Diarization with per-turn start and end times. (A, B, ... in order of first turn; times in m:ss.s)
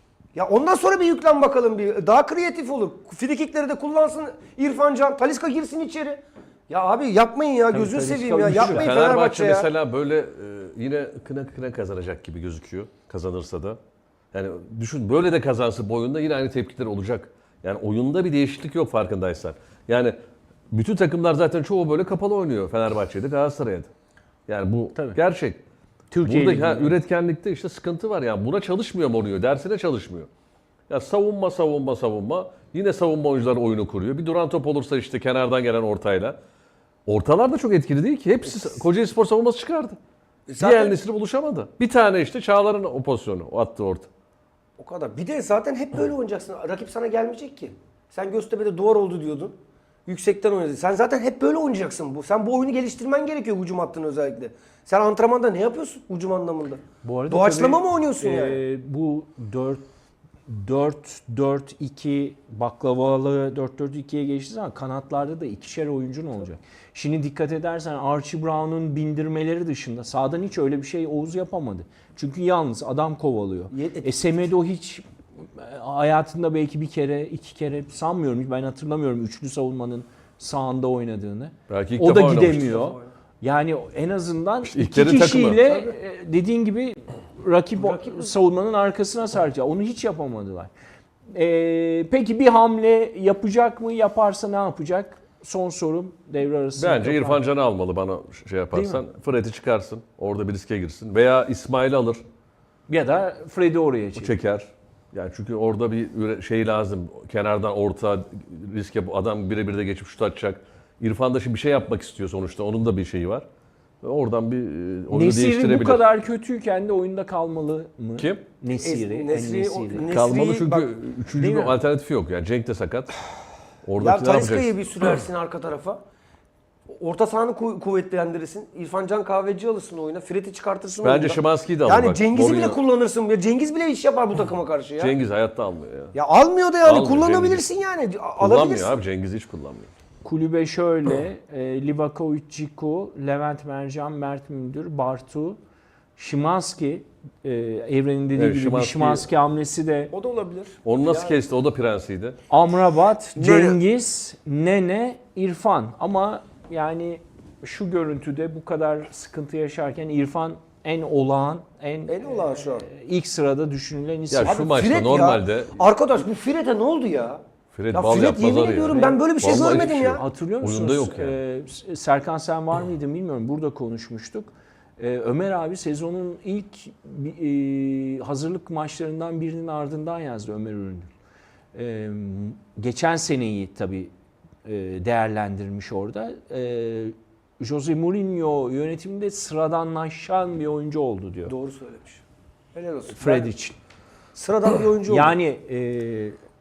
0:00.3-0:09.7 A
0:07.7-0:08.9 B
0:08.5-0:13.8 C
0:14.3-0:20.1 C
0:20.7-0:23.9 C
0:24.5-0:25.6 C
0:26.1-0:27.0 B
0:26.2-0:30.3 C
0:30.9-0:36.4 C
0:37.1-0:40.0 C
0:40.5-0:41.0 A
0:40.6-0:44.1 C
0:44.8-0:58.6 A
0:57.0-0:59.8 B
1:00.4-1:30.7 B
1:13.7-1:14.1 A
1:21.7-1:22.7 C
1:22.6-1:23.1 A
1:24.6-1:25.6 C
1:25.6-1:25.9 A
1:27.8-1:28.3 A
1:31.3-1:37.4 B
1:36.8-1:42.2 C
1:38.7-1:39.0 B
1:42.9-1:44.4 B
1:44.2-1:53.4 C
1:54.0-1:56.0 C
1:55.1-2:00.1 B
1:58.2-1:58.4 C
1:58.7-2:00.9 A
2:00.1-2:03.2 C
2:01.4-2:01.8 B
2:03.8-2:05.2 C
2:04.0-2:06.0 A
2:06.9-2:15.1 A
2:11.0-2:12.8 C
2:15.0-2:16.1 C
2:16.1-2:19.0 A
2:16.8-2:17.6 C
2:18.4-2:19.9 C
2:20.2-2:25.6 B
2:26.2-2:30.1 B
2:28.3-2:29.3 C
2:30.1-2:31.4 A
2:30.8-2:32.4 C
2:32.5-2:44.6 B
2:33.3-2:33.8 A
2:42.1-2:42.8 A
2:44.3-2:45.7 C
2:44.4-2:50.2 A
2:47.7-2:51.4 C
2:48.9-3:01.1 B
3:01.7-3:04.1 B
3:04.6-3:11.5 B
3:11.5-3:12.2 A
3:12.7-3:13.5 A
3:13.1-3:13.8 B
3:14.3-3:15.4 A
3:15.0-3:16.4 B